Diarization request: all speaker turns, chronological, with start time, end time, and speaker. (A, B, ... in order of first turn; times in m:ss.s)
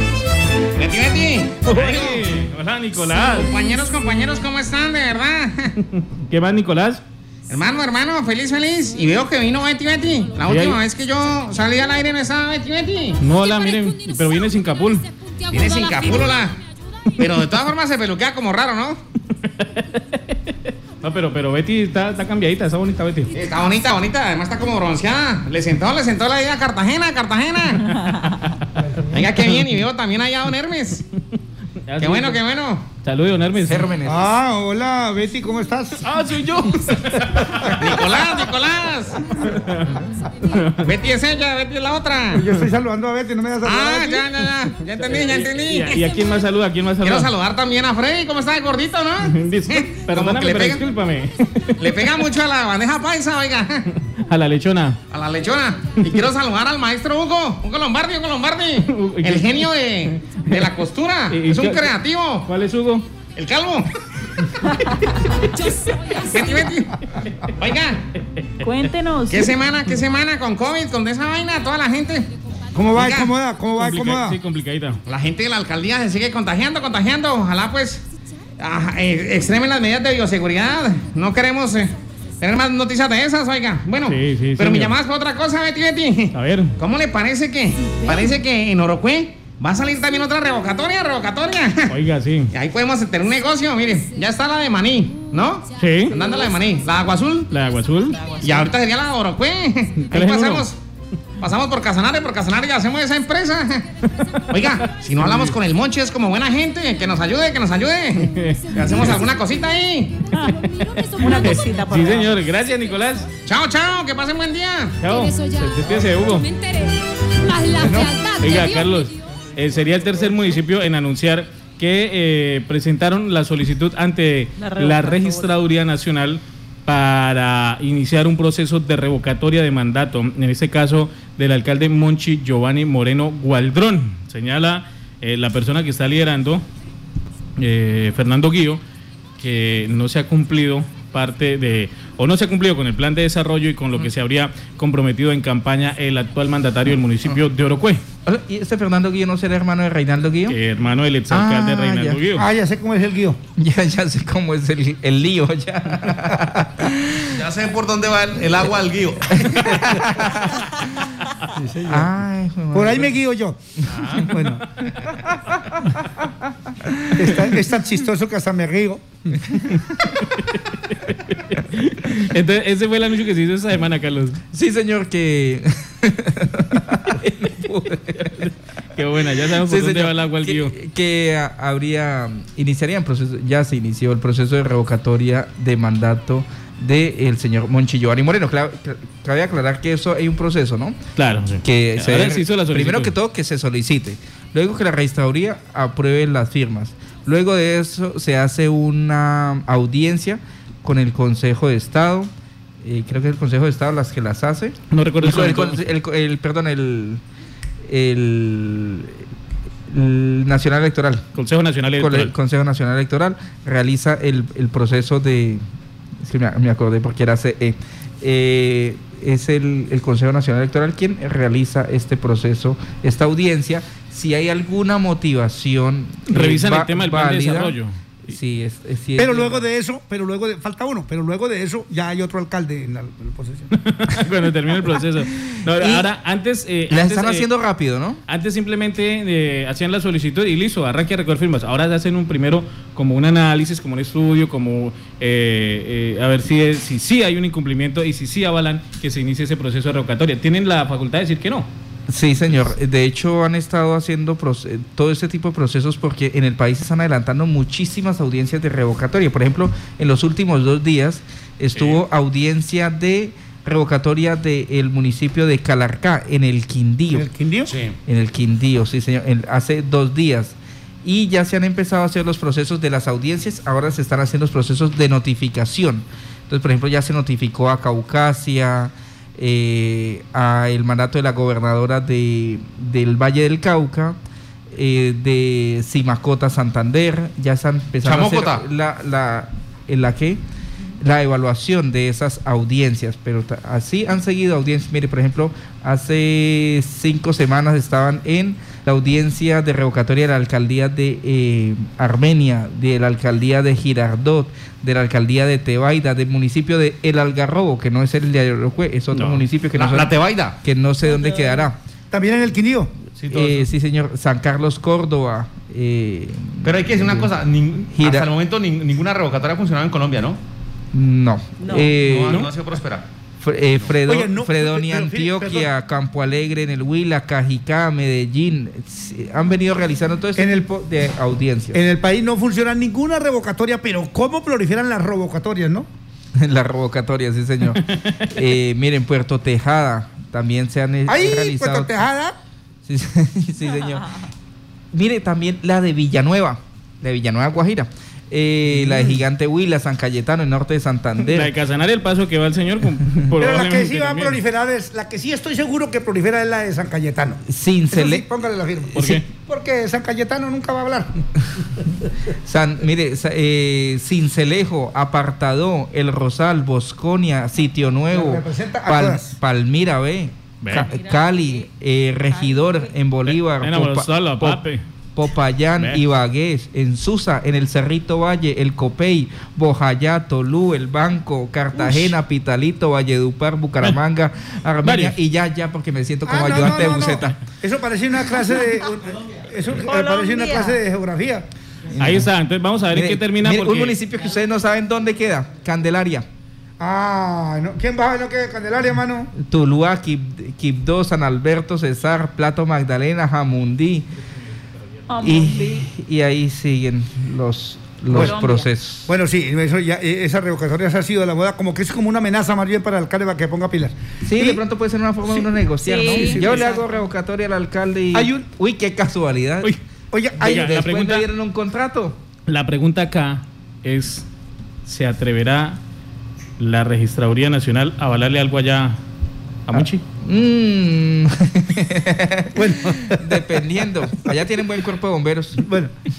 0:00.8-0:02.3 A
0:01.6-0:03.6 B
0:03.3-0:05.8 A
0:05.9-0:07.0 B
0:07.5-0:13.2 A
0:10.4-0:10.8 B
0:13.2-0:15.1 B
0:13.4-0:13.9 C
0:15.5-0:16.6 A
0:15.7-0:16.3 C
0:17.2-0:19.0 A
0:19.5-0:23.3 B
0:23.3-0:28.1 A
0:28.8-0:29.2 D
0:29.1-0:31.0 A
0:31.8-0:32.4 B
0:32.0-0:32.9 A
0:33.0-0:33.9 B
0:33.7-0:34.2 E
0:34.0-0:36.0 D
0:36.0-0:38.0 B
0:37.8-0:39.3 A
0:39.3-0:40.8 B
0:40.8-0:42.5 A
0:42.3-0:44.3 D
0:43.6-0:46.1 A
0:45.0-0:47.3 B
0:47.0-0:50.8 A
0:49.2-0:51.8 B
0:51.8-0:53.9 A
0:54.2-0:55.0 B
0:55.1-1:02.5 A
0:58.9-1:00.6 B
1:01.3-1:01.9 B
1:02.4-1:03.1 B
1:03.4-1:03.9 A
1:06.1-1:08.0 A
1:08.4-1:08.6 B
1:08.6-1:09.5 F
1:09.2-1:12.3 A
1:12.7-1:14.4 D
1:12.9-1:13.4 A
1:13.8-1:15.0 B
1:15.1-1:18.0 A
1:18.6-1:31.9 A
1:24.0-1:25.0 B
1:26.3-1:26.8 B
1:31.9-1:32.5 B
1:32.5-1:37.5 A
1:35.8-1:36.2 B
1:37.5-1:38.3 B
1:38.2-1:38.6 F
1:38.4-1:40.8 A
1:40.0-1:40.7 B
1:41.4-1:43.9 A
1:44.1-1:45.5 B
1:44.5-1:50.3 A
1:48.2-1:49.2 B
1:50.3-1:50.6 F
1:50.4-1:51.9 C
1:50.7-1:53.3 B
1:51.2-1:52.4 F
1:53.4-1:55.0 A
1:55.0-1:56.5 B
1:55.1-1:59.0 C
1:57.8-1:58.1 D
1:58.4-2:16.6 B
2:04.6-2:05.4 F
2:17.6-2:18.8 B
2:19.4-2:28.0 B
2:28.3-2:30.6 E
2:30.5-2:32.5 B
2:31.3-2:32.2 E
2:32.4-2:33.4 D
2:33.6-2:37.5 E
2:37.3-2:40.0 G
2:39.3-2:41.1 E
2:41.5-2:42.1 D
2:41.9-2:43.1 E
2:42.7-2:44.6 D
2:43.9-2:44.3 G
2:45.4-2:45.9 E
2:46.7-2:47.5 E
2:47.1-2:49.6 D
2:50.2-2:54.4 B
2:54.5-2:58.5 E
2:58.2-3:00.8 B
2:59.6-3:11.0 E
3:11.2-3:13.2 B
3:11.6-3:22.3 E
3:22.8-3:27.2 E
3:24.9-3:25.8 B
3:27.9-3:29.2 E
3:29.9-3:31.2 E
3:31.4-3:32.3 B
3:32.0-3:35.6 E
3:36.2-3:49.7 E
3:46.3-3:48.0 B
3:49.2-3:53.7 D
3:53.8-3:57.5 B
3:55.5-3:56.1 E
3:56.9-3:58.2 E
3:58.3-4:11.7 B
4:12.1-4:27.3 E
4:21.8-4:22.0 B
4:27.1-4:27.7 D
4:27.7-4:28.0 G
4:28.1-4:44.2 E
4:44.7-4:50.4 E
4:48.0-4:48.7 G
4:51.0-5:11.8 E
5:09.1-5:10.6 G
5:12.1-5:12.9 D
5:13.2-5:13.7 G
5:13.3-5:17.3 E
5:16.6-5:20.4 G
5:17.9-5:18.3 E
5:20.9-5:22.5 E
5:21.9-5:23.1 G
5:23.4-5:31.8 E
5:24.1-5:25.7 D
5:30.4-5:30.7 D
5:31.7-5:35.9 D
5:36.4-5:42.1 E
5:41.1-5:42.4 D
5:42.9-5:44.3 E
5:44.9-5:51.5 E
5:51.3-5:54.4 B
5:53.4-6:01.2 D
5:57.5-5:58.3 E
5:58.9-5:59.2 B
6:02.3-6:14.6 E
6:08.1-6:09.4 D
6:10.6-6:10.9 B
6:10.9-6:11.4 F
6:12.4-6:12.8 F
6:13.3-6:14.8 B
6:15.2-6:27.4 E
6:15.8-6:16.0 B
6:24.8-6:25.2 B
6:26.2-6:31.4 D
6:29.8-6:30.8 F
6:31.9-6:32.3 E
6:32.0-6:34.0 B
6:32.9-6:36.3 E
6:36.8-6:39.3 D
6:39.4-6:44.1 E
6:45.1-6:45.8 F
6:45.2-6:49.1 E
6:48.1-6:48.4 D
6:48.1-6:48.7 F
6:49.1-6:54.6 D
6:54.2-6:59.7 E
6:55.3-6:56.8 D
6:55.8-6:56.8 F
6:58.1-6:58.5 D
7:00.1-7:00.5 D
7:00.4-7:02.2 E
7:00.4-7:01.3 B
7:02.5-7:04.3 B
7:04.8-7:05.8 B
7:06.6-7:09.0 B
7:09.7-7:10.0 B
7:09.7-7:15.7 E
7:12.5-7:13.2 D
7:15.6-7:15.9 D